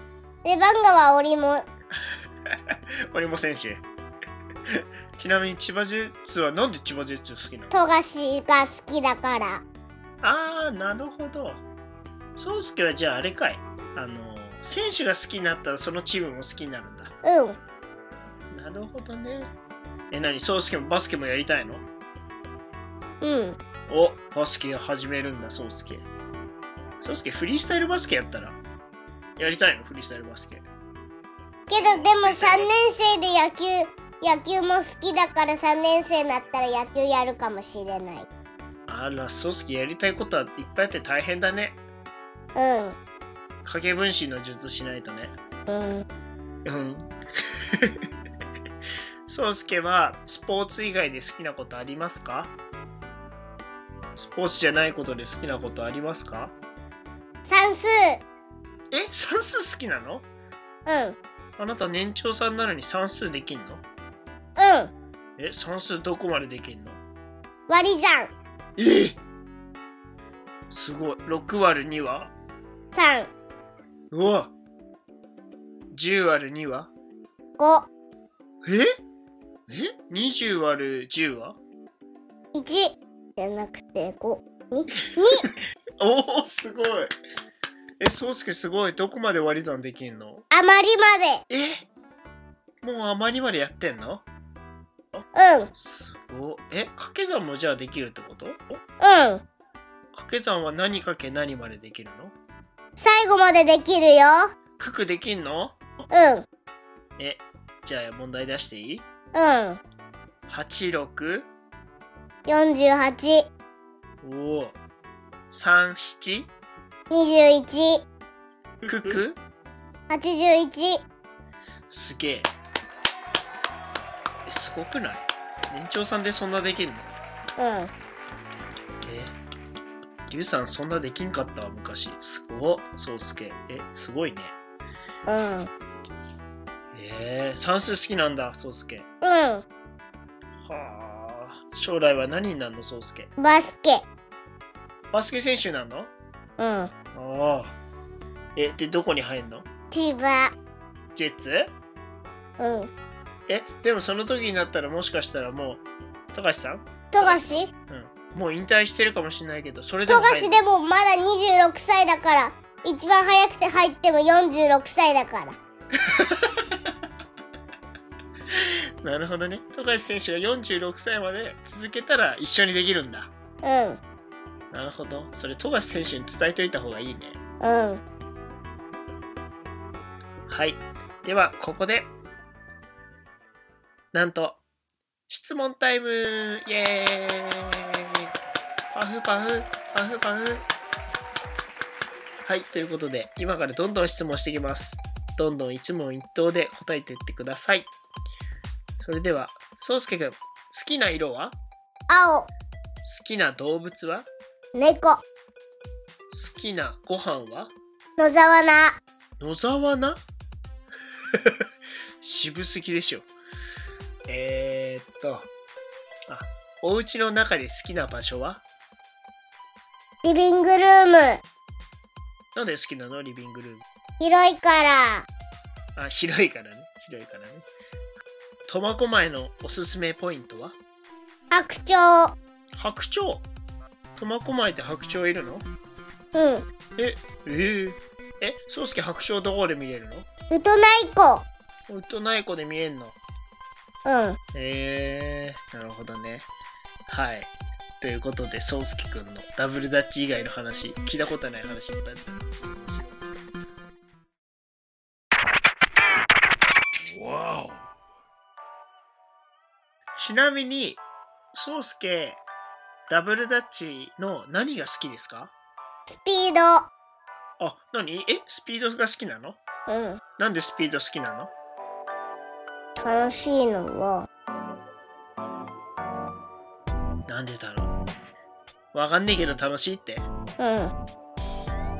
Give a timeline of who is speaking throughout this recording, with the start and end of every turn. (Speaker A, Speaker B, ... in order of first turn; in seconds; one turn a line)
Speaker A: 0.4-1.7
Speaker B: 2.7-3.8
Speaker B: 4.7-7.7
Speaker A: 7.7-9.6
Speaker B: 10.2-11.6
Speaker B: 12.4-17.1
Speaker A: 17.2-17.6
Speaker B: 18.5-19.5
Speaker B: 20.1-21.9
Speaker A: 23.2-23.6
Speaker B: 23.9-26.1
Speaker B: 27.0-28.6
Speaker B: 29.4-30.6
Speaker A: 31.7-38.3
Speaker B: 31.8-32.7
Speaker B: 38.9-41.8
Speaker A: 42.5-43.0
Speaker B: 43.6-45.3
Speaker A: 45.7-46.0
Speaker B: 46.6-47.1
Speaker B: 49.3-52.5
Speaker B: 54.2-56.5
Speaker A: 57.5-58.2
Speaker B: 58.9-60.3
Speaker A: 60.9-61.2
Speaker B: 61.6-63.8
Speaker A: 64.6-64.9
Speaker B: 65.4-67.0
Speaker A: 67.7-68.3
Speaker B: 68.8-69.2
Speaker B: 70.7-72.3
Speaker A: 72.9-73.3
Speaker B: 74.1-74.5
Speaker B: 75.9-76.9
Speaker A: 77.6-77.9
Speaker B: 78.6-78.9
Speaker B: 79.7-81.6
Speaker A: 82.5-85.5
Speaker B: 85.4-87.1
Speaker B: 88.0-90.5
Speaker A: 90.5-91.4
Speaker B: 91.5-91.9
Speaker B: 92.8-94.2
Speaker A: 95.3-95.7
Speaker B: 95.7-98.6
Speaker A: 99.0-99.4
Speaker B: 100.1-102.3
Speaker A: 103.0-104.5
Speaker B: 104.8-105.8
Speaker A: 106.1-106.5
Speaker B: 107.2-109.0
Speaker A: 109.3-109.8
Speaker B: 110.5-111.5
Speaker A: 112.5-113.5
Speaker B: 114.2-114.8
Speaker B: 115.5-116.5
Speaker A: 117.1-118.0
Speaker B: 118.9-119.4
Speaker A: 120.1-121.0
Speaker B: 121.9-122.5
Speaker B: 124.5-127.1
Speaker A: 127.6-127.9
Speaker B: 129.1-129.3
Speaker B: 130.3-134.6
Speaker A: 135.3-135.7
Speaker B: 136.9-139.1
Speaker A: 139.2-139.7
Speaker B: 140.7-143.3
Speaker A: 143.4-144.1
Speaker B: 145.1-146.1
Speaker A: 146.6-146.9
Speaker B: 147.1-147.8
Speaker B: 148.6-149.7
Speaker A: 149.9-150.5
Speaker B: 151.2-151.7
Speaker A: 152.6-152.9
Speaker B: 153.5-160.6
Speaker A: 157.1-157.7
Speaker A: 160.1-165.6
Speaker B: 166.1-166.7
Speaker B: 168.5-173.3
Speaker A: 173.6-174.0
Speaker B: 174.7-177.4
Speaker A: 177.6-178.0
Speaker B: 180.5-182.1
Speaker B: 184.1-184.6
Speaker B: 185.3-188.2
Speaker B: 188.9-190.7
Speaker B: 192.4-197.9
Speaker B: 199.0-201.6
Speaker A: 202.1-202.5
Speaker B: 203.0-204.3
Speaker A: 204.8-205.2
Speaker B: 206.3-207.7
Speaker A: 208.2-209.0
Speaker B: 209.4-210.2
Speaker B: 212.2-213.3
Speaker B: 214.3-215.5
Speaker B: 216.3-218.6
Speaker A: 220.2-221.4
Speaker B: 222.6-223.8
Speaker A: 224.2-225.3
Speaker B: 226.0-227.7
Speaker B: 228.7-230.8
Speaker A: 231.5-232.4
Speaker B: 232.8-233.5
Speaker B: 234.2-235.7
Speaker A: 236.3-236.7
Speaker B: 237.0-240.3
Speaker A: 240.5-241.5
Speaker B: 241.9-243.2
Speaker A: 244.1-244.4
Speaker B: 244.5-246.5
Speaker B: 247.1-253.1
Speaker B: 260.2-261.0
Speaker B: 261.5-262.4
Speaker B: 263.1-265.5
Speaker A: 266.1-266.9
Speaker B: 267.6-269.6
Speaker A: 269.9-270.2
Speaker B: 270.4-271.5
Speaker A: 273.0-274.3
Speaker B: 277.3-278.0
Speaker B: 278.9-280.3
Speaker A: 280.6-280.9